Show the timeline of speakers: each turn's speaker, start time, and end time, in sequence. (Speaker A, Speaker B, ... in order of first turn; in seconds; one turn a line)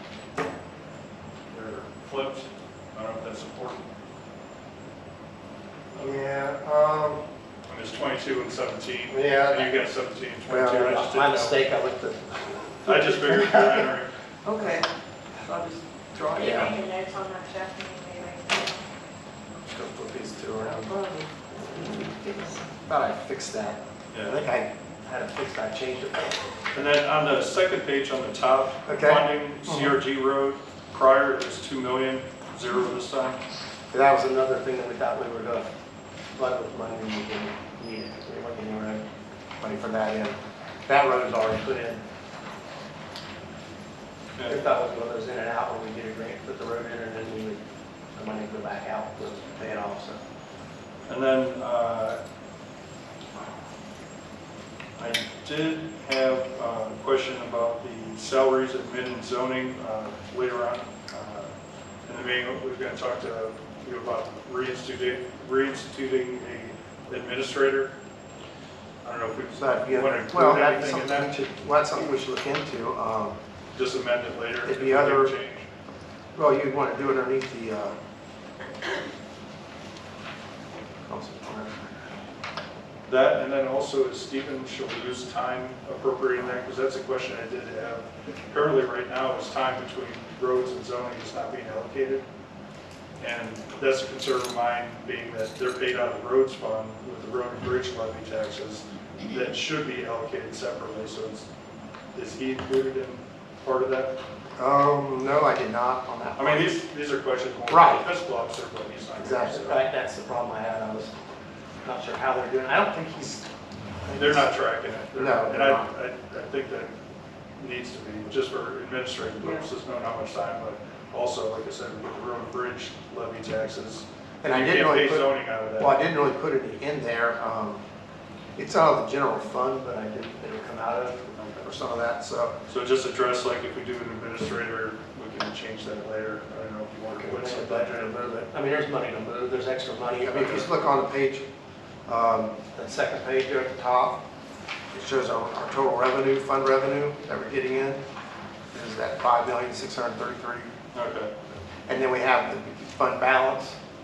Speaker A: 1.5-3.9
Speaker B: 5.9-7.2
Speaker A: 7.7-11.6
Speaker B: 9.1-9.8
Speaker B: 10.5-13.9
Speaker A: 12.8-14.1
Speaker C: 14.4-14.9
Speaker C: 15.4-16.7
Speaker D: 16.4-18.8
Speaker B: 16.4-16.8
Speaker B: 19.6-20.9
Speaker C: 20.8-21.3
Speaker C: 22.1-22.6
Speaker B: 22.9-26.4
Speaker A: 24.1-24.4
Speaker A: 26.7-33.4
Speaker B: 28.9-30.0
Speaker B: 33.9-35.7
Speaker B: 36.4-39.0
Speaker B: 39.6-42.0
Speaker A: 44.4-44.7
Speaker B: 44.5-47.6
Speaker B: 48.2-50.2
Speaker A: 51.1-52.2
Speaker A: 55.0-61.5
Speaker A: 62.1-67.9
Speaker A: 69.0-71.3
Speaker B: 69.6-73.4
Speaker A: 73.8-75.7
Speaker B: 74.7-75.3
Speaker B: 76.3-78.0
Speaker B: 81.1-82.0
Speaker A: 83.1-92.2
Speaker A: 93.2-101.5
Speaker A: 102.1-104.2
Speaker B: 104.6-106.8
Speaker A: 106.4-109.8
Speaker B: 107.7-108.1
Speaker B: 109.2-111.1
Speaker B: 111.8-113.5
Speaker B: 114.0-114.5
Speaker A: 114.1-116.9
Speaker B: 115.1-115.9
Speaker A: 117.6-126.0
Speaker B: 124.4-127.8
Speaker B: 128.6-132.5
Speaker A: 131.3-131.7
Speaker A: 132.7-138.1
Speaker B: 137.1-141.5
Speaker A: 140.3-140.7
Speaker B: 142.1-144.2
Speaker B: 144.9-148.0
Speaker B: 148.7-150.7
Speaker A: 150.9-151.3
Speaker B: 151.9-153.8